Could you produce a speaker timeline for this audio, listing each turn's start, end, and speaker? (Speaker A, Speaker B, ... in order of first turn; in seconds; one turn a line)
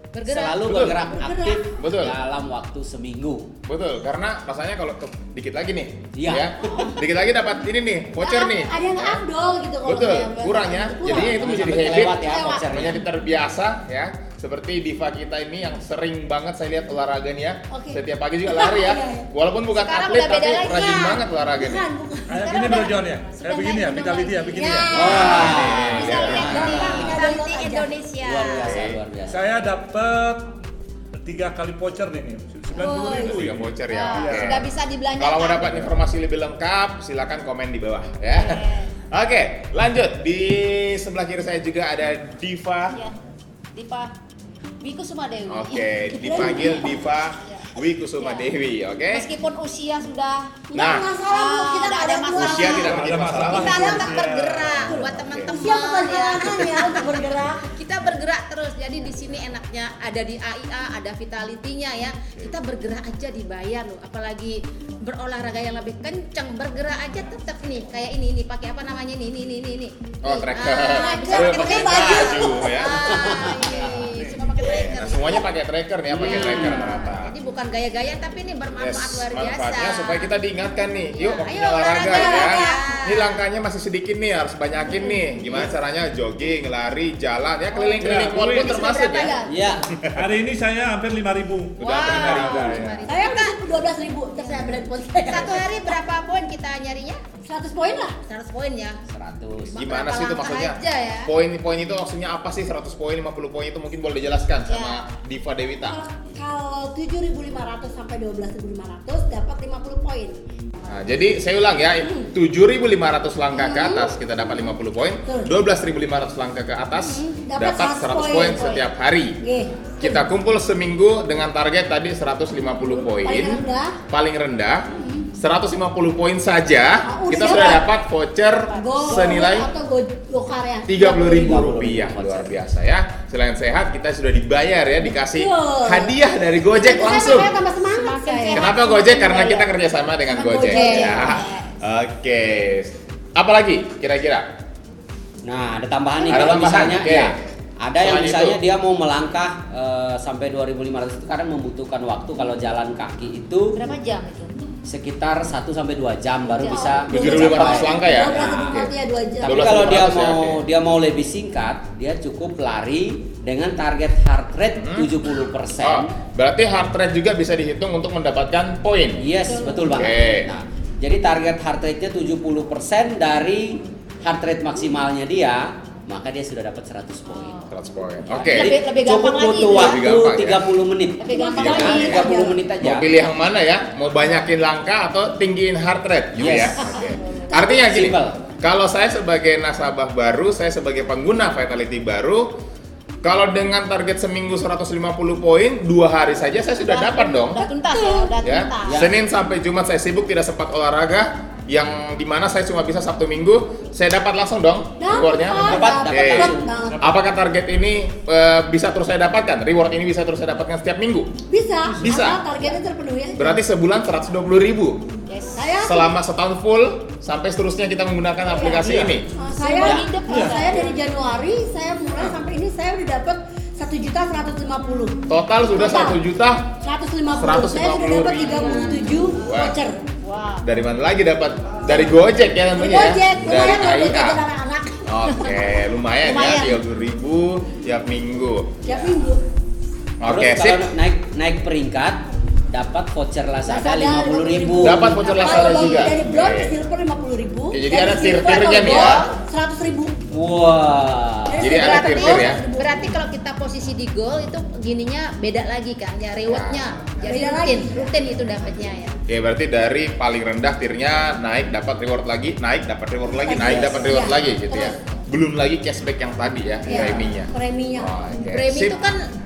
Speaker A: 0.1-0.6
Speaker B: 0.2-3.5
Speaker C: 0.6-1.1
Speaker D: 1.0-1.7
Speaker C: 1.8-2.2
Speaker C: 3.7-9.2
Speaker B: 6.1-6.7
Speaker A: 6.6-6.9
Speaker D: 8.2-12.7
Speaker C: 9.8-21.9
Speaker B: 11.1-13.0
Speaker D: 17.7-18.0
Speaker D: 18.5-19.2
Speaker A: 19.7-21.2
Speaker D: 21.5-22.9
Speaker E: 22.3-25.4
Speaker A: 22.3-24.6
Speaker D: 24.5-27.9
Speaker B: 24.9-27.3
Speaker C: 25.1-27.0
Speaker A: 25.2-28.8
Speaker B: 28.2-29.4
Speaker C: 28.6-29.0
Speaker E: 29.3-30.6
Speaker E: 31.2-34.6
Speaker A: 32.8-33.4
Speaker D: 32.8-33.3
Speaker C: 33.1-43.0
Speaker A: 33.9-35.9
Speaker A: 38.3-38.9
Speaker A: 43.7-44.1
Speaker A: 44.8-48.5
Speaker C: 45.5-49.3
Speaker D: 46.2-46.9
Speaker A: 49.1-50.6
Speaker D: 50.7-52.9
Speaker C: 50.8-51.1
Speaker A: 51.2-57.1
Speaker C: 52.3-54.1
Speaker E: 52.7-54.9
Speaker D: 53.4-54.2
Speaker D: 54.8-57.7
Speaker C: 54.9-55.6
Speaker A: 57.7-75.5
Speaker C: 70.2-73.2
Speaker D: 70.9-72.8
Speaker B: 73.1-73.5
Speaker E: 73.4-74.7
Speaker C: 74.6-77.3
Speaker A: 76.1-80.3
Speaker B: 76.2-76.9
Speaker C: 78.8-89.4
Speaker A: 81.1-83.4
Speaker D: 82.0-83.0
Speaker D: 84.9-85.6
Speaker E: 87.8-88.8
Speaker A: 88.6-89.6
Speaker B: 89.5-89.9
Speaker E: 90.1-92.9
Speaker C: 91.8-93.1
Speaker A: 91.8-93.6
Speaker D: 93.1-96.0
Speaker A: 94.4-97.2
Speaker D: 97.4-98.2
Speaker A: 98.3-99.0
Speaker B: 99.1-99.8
Speaker C: 99.7-106.0
Speaker A: 99.7-101.3
Speaker A: 104.7-105.0
Speaker D: 105.8-110.4
Speaker C: 110.9-119.4
Speaker D: 112.0-112.3
Speaker D: 113.5-114.1
Speaker D: 115.2-115.5
Speaker D: 117.0-118.8
Speaker D: 119.4-120.2
Speaker C: 120.0-129.7
Speaker D: 122.8-124.0
Speaker D: 127.1-127.9
Speaker A: 128.4-129.6
Speaker D: 128.8-131.8
Speaker C: 130.9-137.5
Speaker B: 131.3-132.6
Speaker D: 135.0-138.7
Speaker A: 137.8-139.7
Speaker C: 138.5-144.5
Speaker D: 140.2-141.5
Speaker A: 140.7-141.6
Speaker B: 145.4-153.8
Speaker C: 146.2-147.4
Speaker C: 147.9-148.6
Speaker A: 153.8-154.5
Speaker B: 154.9-158.7
Speaker A: 156.5-157.0
Speaker D: 156.6-159.8
Speaker C: 157.1-160.6
Speaker B: 159.4-166.1
Speaker C: 164.8-165.1
Speaker C: 165.8-169.2
Speaker B: 169.2-177.6
Speaker D: 169.5-170.1
Speaker C: 169.9-170.6
Speaker A: 177.3-177.7
Speaker C: 177.7-178.7
Speaker B: 178.3-183.1
Speaker A: 178.4-180.1
Speaker C: 179.7-180.6
Speaker A: 181.2-182.2
Speaker D: 181.3-182.6
Speaker C: 181.6-192.6
Speaker B: 186.4-186.9
Speaker D: 186.5-187.8
Speaker B: 187.7-188.4
Speaker C: 193.2-197.7
Speaker A: 196.8-199.0
Speaker D: 197.8-198.3
Speaker C: 198.4-211.3
Speaker B: 198.8-199.2
Speaker D: 205.0-207.1
Speaker B: 205.6-206.8
Speaker E: 206.9-207.2
Speaker D: 211.5-213.6
Speaker C: 211.9-212.6
Speaker C: 213.3-215.0
Speaker A: 215.3-215.8
Speaker D: 215.6-216.1
Speaker C: 215.8-219.3
Speaker D: 218.4-226.2
Speaker E: 218.8-219.2
Speaker A: 219.5-220.9
Speaker B: 219.8-220.1
Speaker E: 220.3-220.7
Speaker C: 225.3-226.7
Speaker D: 226.8-230.0
Speaker C: 227.3-229.8
Speaker A: 230.2-230.7
Speaker C: 230.6-234.4
Speaker D: 232.7-235.6
Speaker C: 235.1-238.8
Speaker A: 236.2-236.8
Speaker D: 238.8-239.4
Speaker C: 240.2-240.9
Speaker B: 240.2-245.5
Speaker D: 243.6-250.2
Speaker C: 244.8-246.8
Speaker A: 245.6-245.9
Speaker C: 247.7-249.3
Speaker A: 248.9-249.3
Speaker B: 250.3-251.6
Speaker D: 251.4-253.2
Speaker C: 251.6-252.6
Speaker A: 251.6-259.2
Speaker C: 256.4-256.8
Speaker D: 257.2-258.1
Speaker C: 259.3-269.0
Speaker D: 263.2-265.0
Speaker B: 263.6-263.9
Speaker D: 266.9-268.1
Speaker A: 268.4-269.2